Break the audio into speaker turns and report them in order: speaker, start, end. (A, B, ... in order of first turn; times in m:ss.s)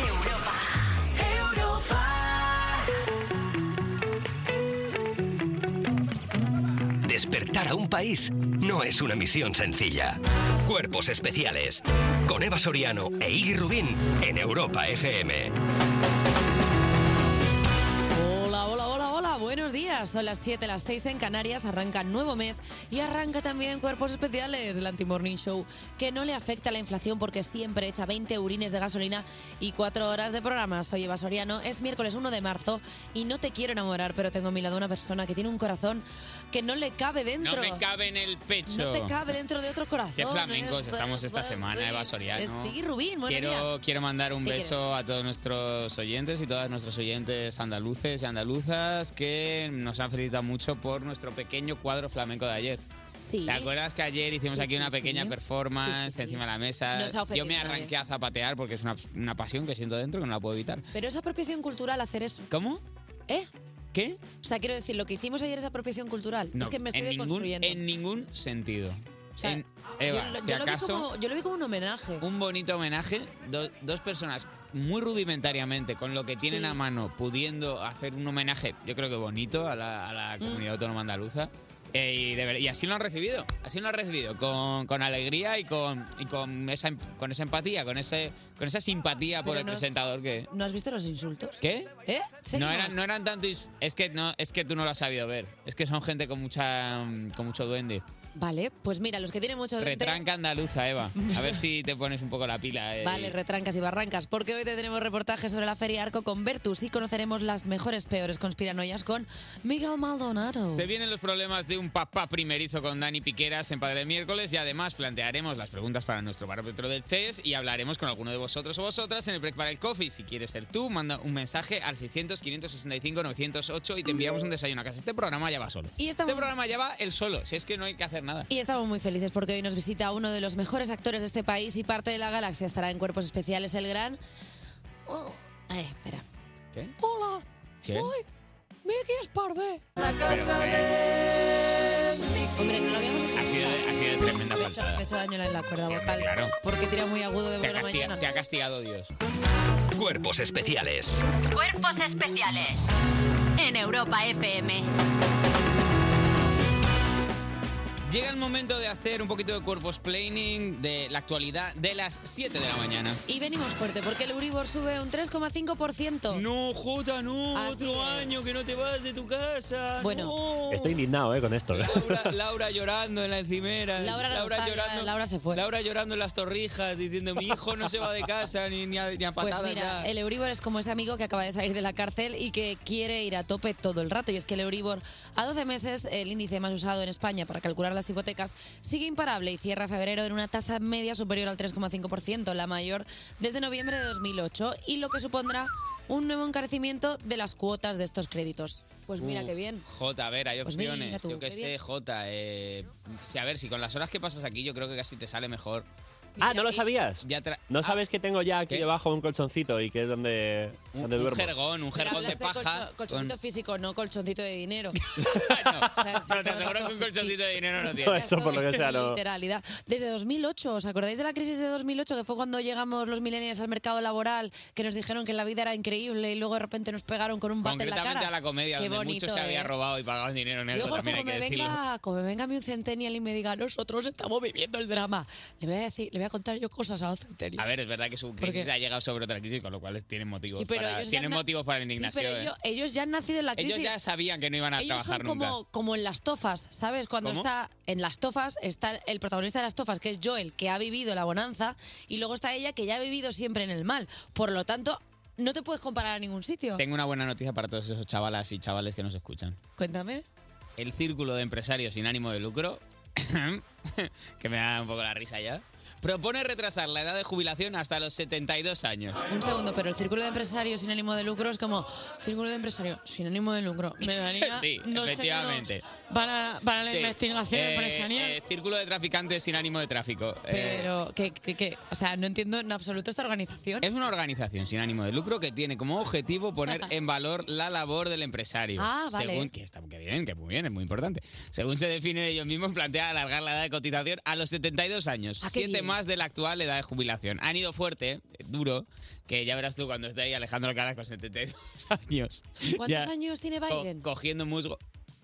0:01.2-0:02.5 A
0:07.0-0:15.6 A
0:18.1-0:37.8 B
0:37.4-0:39.2 C
0:38.7-0:43.7 B
0:40.2-0:52.8 C
0:44.4-0:44.8 B
0:53.2-0:53.7 B
0:53.5-1:00.8 C
0:54.6-0:57.9 B
1:00.9-1:02.5 B
1:02.5-1:02.8 C
1:03.9-1:04.2 C
1:04.4-1:07.8 B
1:06.6-1:11.1 C
1:09.4-1:12.2 B
1:12.2-1:30.5 C
1:16.5-1:16.8 B
1:29.4-1:29.9 B
1:30.5-1:33.0 B
1:31.6-1:31.9 C
1:32.5-1:38.0 C
1:38.4-1:40.2 B
1:39.8-1:43.4 C
1:41.2-1:41.6 B
1:43.0-1:50.9 B
1:50.7-2:08.5 C
2:06.0-2:06.5 B
2:08.5-2:14.2 B
2:15.1-2:16.2 B
2:17.0-2:18.2 B
2:17.8-2:18.1 C
2:18.8-2:19.8 B
2:20.2-2:21.1 C
2:22.6-2:28.2 B
2:23.4-2:25.0 C
2:25.8-2:26.5 C
2:27.6-2:29.1 C
2:29.9-2:31.3 A
2:31.5-2:32.9 D
2:33.6-2:34.9 D
2:38.1-2:43.2 C
2:43.3-2:46.4 B
2:46.3-2:51.0 C
2:47.6-2:48.3 B
2:50.0-2:50.3 B
2:50.7-2:52.3 E
2:51.7-3:00.1 C
2:54.0-2:55.6 B
2:59.4-3:19.8 B
3:19.2-3:25.9 C
3:20.6-3:21.7 B
3:26.4-3:26.9 B
3:26.4-3:31.5 E
3:27.2-3:28.0 C
3:31.0-3:33.4 C
3:32.0-3:37.4 B
3:35.2-3:38.8 C
3:38.0-3:39.2 E
3:38.1-3:49.7 B
3:47.6-3:51.8 C
3:50.7-3:57.6 B
3:57.6-4:02.5 C
3:58.4-3:58.7 B
4:00.5-4:01.4 B
4:01.9-4:03.9 B
4:03.6-4:05.6 C
4:04.8-4:16.8 B
4:07.2-4:07.5 C
4:16.8-4:19.6 C
4:19.8-4:20.2 B
4:20.8-4:29.2 C
4:29.3-4:38.4 B
4:34.3-4:35.8 C
4:36.9-4:40.9 C
4:40.5-4:43.9 B
4:43.8-5:03.1 C
4:48.8-4:49.5 B
4:55.4-4:56.0 B
5:02.7-5:04.0 B
5:03.7-5:04.8 C